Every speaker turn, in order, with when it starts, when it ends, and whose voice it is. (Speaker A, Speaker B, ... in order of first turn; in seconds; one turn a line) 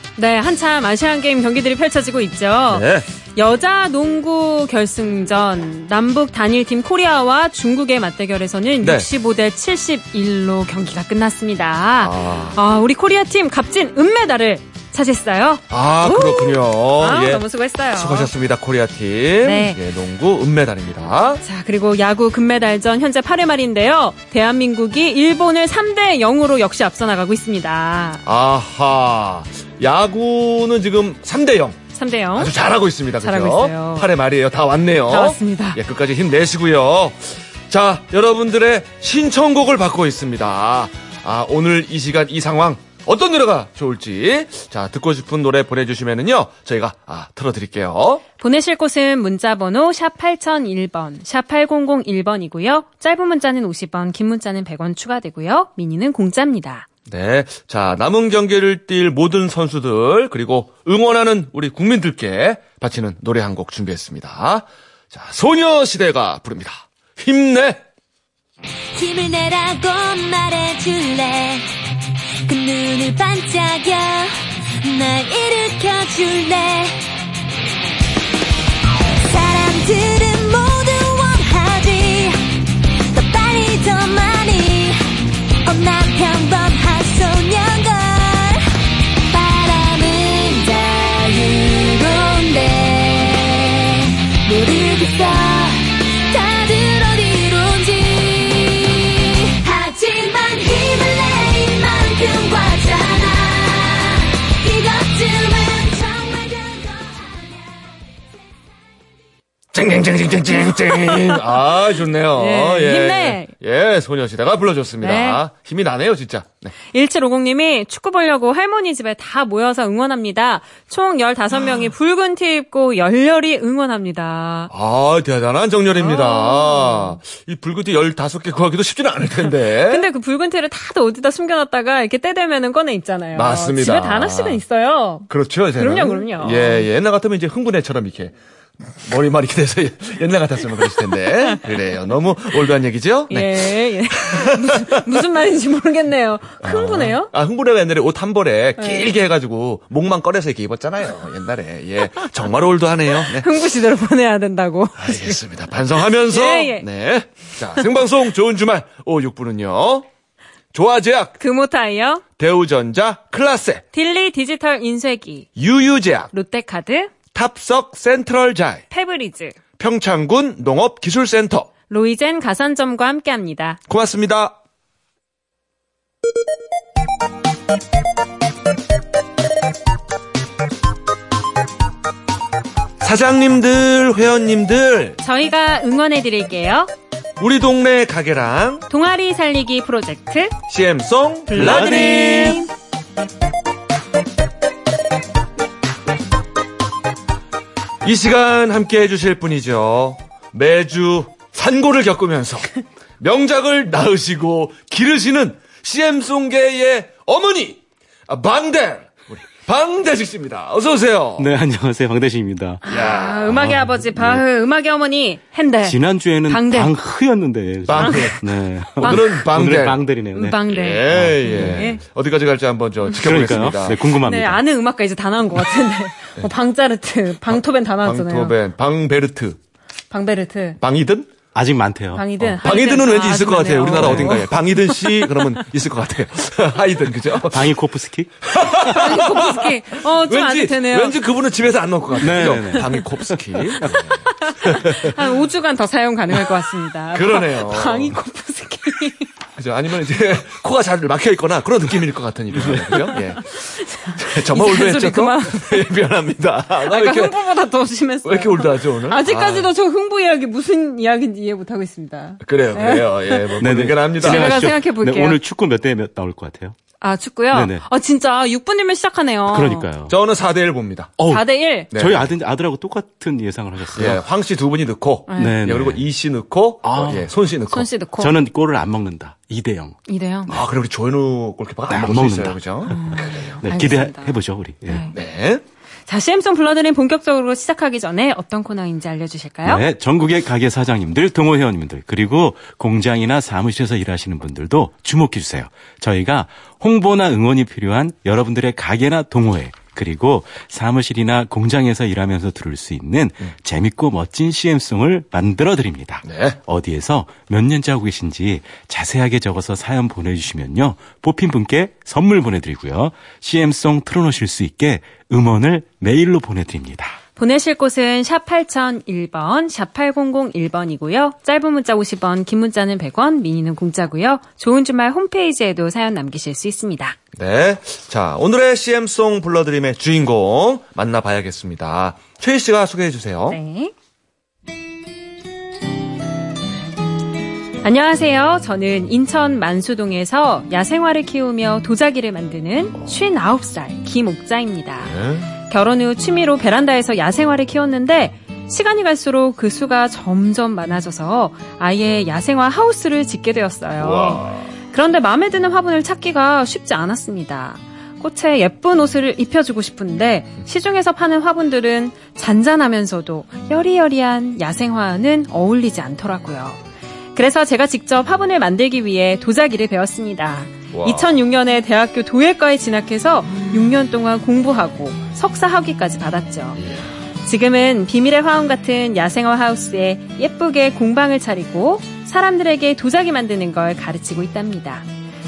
Speaker A: 0.2-18.3
Speaker B: 2.7-3.1
Speaker B: 8.8-9.1
Speaker B: 12.0-12.6
Speaker B: 15.7-21.4
Speaker A: 19.4-19.8
Speaker A: 21.4-28.2
Speaker B: 28.2-31.8
Speaker A: 31.9-32.5
Speaker B: 32.3-48.2
Speaker A: 33.2-34.1
Speaker A: 35.1-35.8
Speaker A: 48.4-56.9
Speaker B: 57.1-67.8
Speaker C: 68.9-71.7
Speaker C: 72.5-77.0
Speaker C: 79.3-82.4
Speaker C: 83.1-85.0
Speaker C: 85.7-88.7
Speaker C: 89.3-108.0
Speaker B: 109.7-116.7
Speaker A: 110.9-111.5
Speaker A: 112.3-113.5
Speaker A: 115.0-115.4
Speaker A: 116.9-124.7
Speaker B: 124.7-130.1
Speaker A: 126.0-127.2
Speaker A: 129.7-136.9
Speaker B: 133.3-134.6
Speaker B: 135.3-145.2
Speaker A: 143.3-147.3
Speaker B: 146.6-153.5
Speaker A: 148.8-149.1
Speaker A: 153.2-155.4
Speaker B: 155.0-160.1
Speaker A: 156.2-156.9
Speaker B: 160.7-161.4
Speaker A: 161.4-162.2
Speaker B: 162.4-163.8
Speaker A: 163.9-165.5
Speaker B: 165.6-166.3
Speaker A: 166.3-167.1
Speaker B: 167.3-168.8
Speaker A: 168.9-169.6
Speaker B: 169.8-171.7
Speaker A: 171.9-173.8
Speaker B: 173.9-174.6
Speaker B: 183.0-185.2
Speaker A: 185.2-186.9
Speaker B: 187.4-188.9
Speaker A: 188.9-190.6
Speaker B: 190.7-192.6
Speaker A: 191.5-192.7
Speaker D: 191.5-192.6
Speaker B: 198.0-211.5
Speaker D: 211.4-212.8
Speaker A: 212.8-216.0
Speaker B: 212.9-213.6
Speaker D: 213.5-214.4
Speaker D: 215.8-221.9
Speaker A: 216.5-216.9
Speaker B: 217.9-220.0
Speaker A: 218.0-218.4
Speaker A: 220.3-222.0
Speaker B: 220.7-224.0
Speaker D: 223.2-224.6
Speaker A: 224.2-228.5
Speaker B: 227.5-229.6
Speaker A: 230.1-230.8
Speaker B: 230.8-231.3
Speaker D: 231.5-232.5
Speaker A: 232.1-234.4
Speaker B: 232.6-237.8
Speaker D: 233.9-234.4
Speaker D: 237.5-238.5
Speaker B: 238.5-245.2
Speaker A: 238.9-241.2
Speaker D: 242.2-243.0
Speaker D: 243.5-244.0
Speaker A: 244.4-249.3
Speaker B: 247.1-248.2
Speaker B: 249.6-253.5
Speaker D: 252.5-253.0
Speaker A: 253.0-255.8
Speaker B: 254.2-257.4
Speaker A: 256.9-263.5
Speaker B: 258.2-259.7
Speaker B: 262.4-264.8
Speaker D: 263.6-266.8
Speaker A: 264.2-265.4
Speaker A: 267.0-269.9
Speaker D: 267.5-267.8
Speaker D: 269.5-270.2
Speaker B: 270.1-271.2
Speaker D: 271.2-274.2
Speaker A: 271.3-271.9
Speaker B: 271.9-272.3
Speaker B: 273.9-277.9
Speaker A: 275.3-275.6
Speaker D: 275.4-276.0
Speaker D: 276.8-277.3
Speaker A: 277.7-278.3
Speaker D: 278.2-280.0
Speaker A: 280.1-280.5
Speaker B: 280.5-283.6
Speaker D: 281.9-285.1
Speaker A: 282.9-284.3
Speaker A: 284.9-285.1
Speaker B: 285.1-285.6
Speaker A: 286.1-289.8
Speaker D: 289.6-317.2
Speaker B: 306.2-306.6
Speaker A: 317.4-327.2
Speaker B: 327.3-333.6
Speaker A: 333.5-333.9
Speaker A: 337.8-345.1
Speaker B: 345.0-345.5
Speaker A: 345.7-366.8
Speaker B: 354.0-354.7
Speaker A: 367.3-376.8
Speaker B: 370.9-371.4
Speaker B: 376.8-377.1
Speaker A: 377.4-385.1